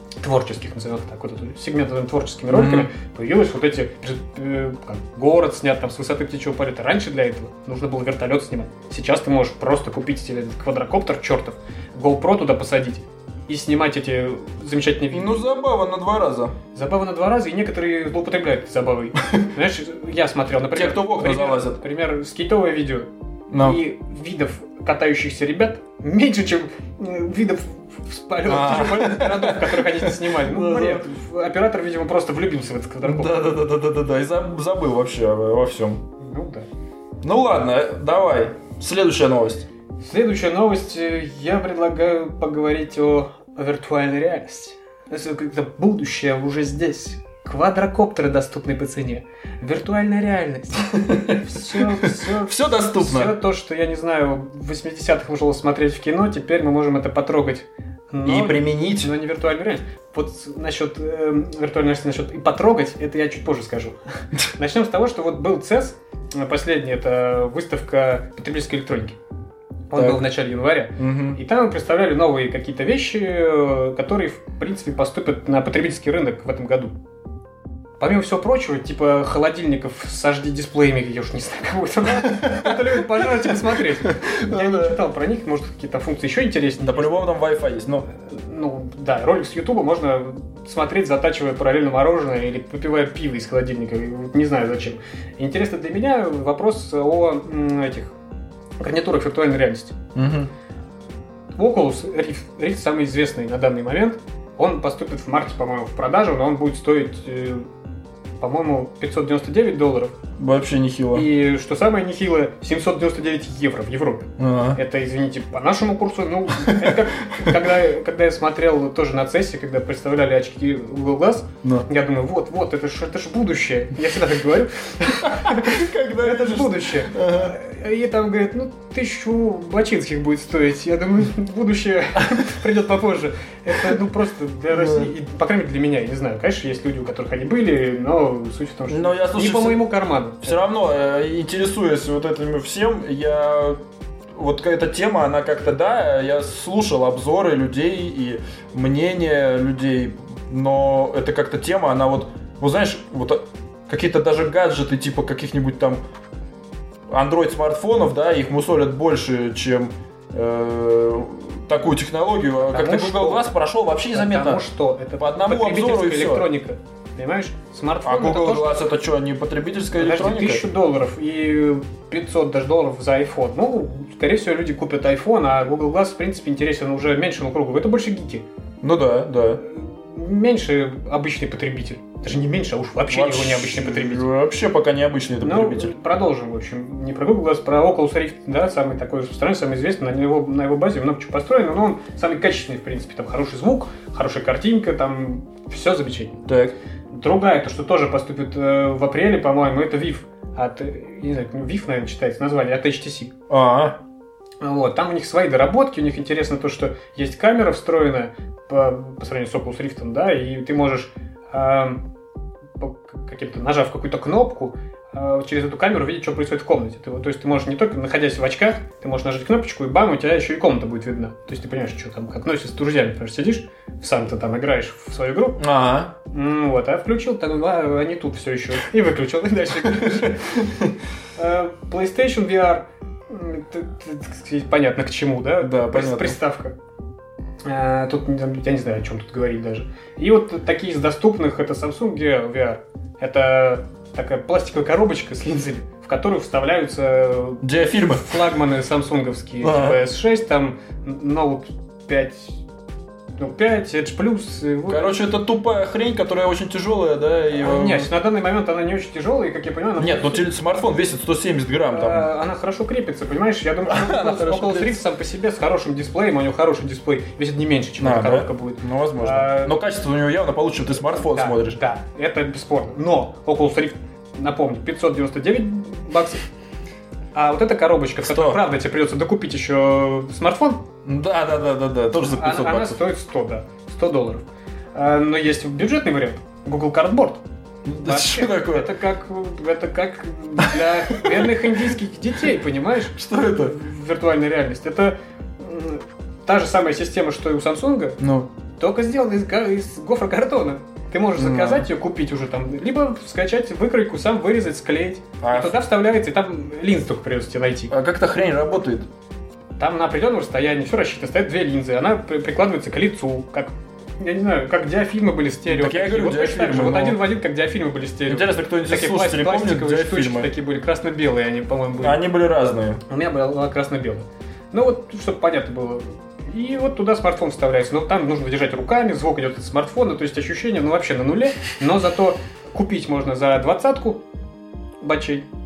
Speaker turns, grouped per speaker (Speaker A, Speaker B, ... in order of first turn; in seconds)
Speaker A: 0.2-15.4, 16.7-33.5, 36.2-36.7, 40.0-69.2, 69.9-76.9, 78.0-87.2, 88.1-98.1, 98.8-100.0, 101.6-107.7, 108.4-110.1, 111.1-140.6, 162.6-163.5, 164.1-168.8, 169.9-178.4, 179.6-184.3, 185.4-196.4, 197.1-203.3, 204.6-212.0, 212.8-225.6, 226.3-230.7, 231.3-236.8, 237.6-252.6, 253.4-255.1, 257.5-260.5, 261.9-269.8, 271.1-276.4, 277.3-280.8, 282.2-287.4, 288.0-298.2, 298.8-307.9, 309.8-322.2, 323.1-334.2, 335.0-335.5
Speaker B: 2.5-2.9, 15.1-16.5, 20.7-21.8, 23.5-23.8, 28.5-31.1, 33.0-36.0, 37.2-39.7, 51.1-53.4, 58.2-59.1, 69.9-70.3, 71.0-71.4, 82.2-85.0, 86.8-88.1, 100.1-100.5, 110.4-111.3, 114.4-114.8, 116.6-117.6, 125.2-127.5, 134.7-135.1, 138.9-139.8, 140.4-143.8, 144.3-156.0, 157.1-164.6, 165.2-166.5, 168.0-170.6, 178.8-179.6, 183.1-185.9, 196.5-196.7, 203.5-204.0, 225.6-226.1, 229.8-230.9, 235.6-236.4, 247.6-248.5, 249.6-250.0, 254.9-258.1, 260.0-262.3, 263.9-265.0, 268.0-271.8, 278.2-278.6, 281.0-283.0, 287.9-288.9, 290.8-291.5, 293.1-293.8, 298.2-298.5, 301.4-301.9, 305.4-305.8, 307.9-309.1, 315.7-317.2, 318.3-320.5, 322.0-323.0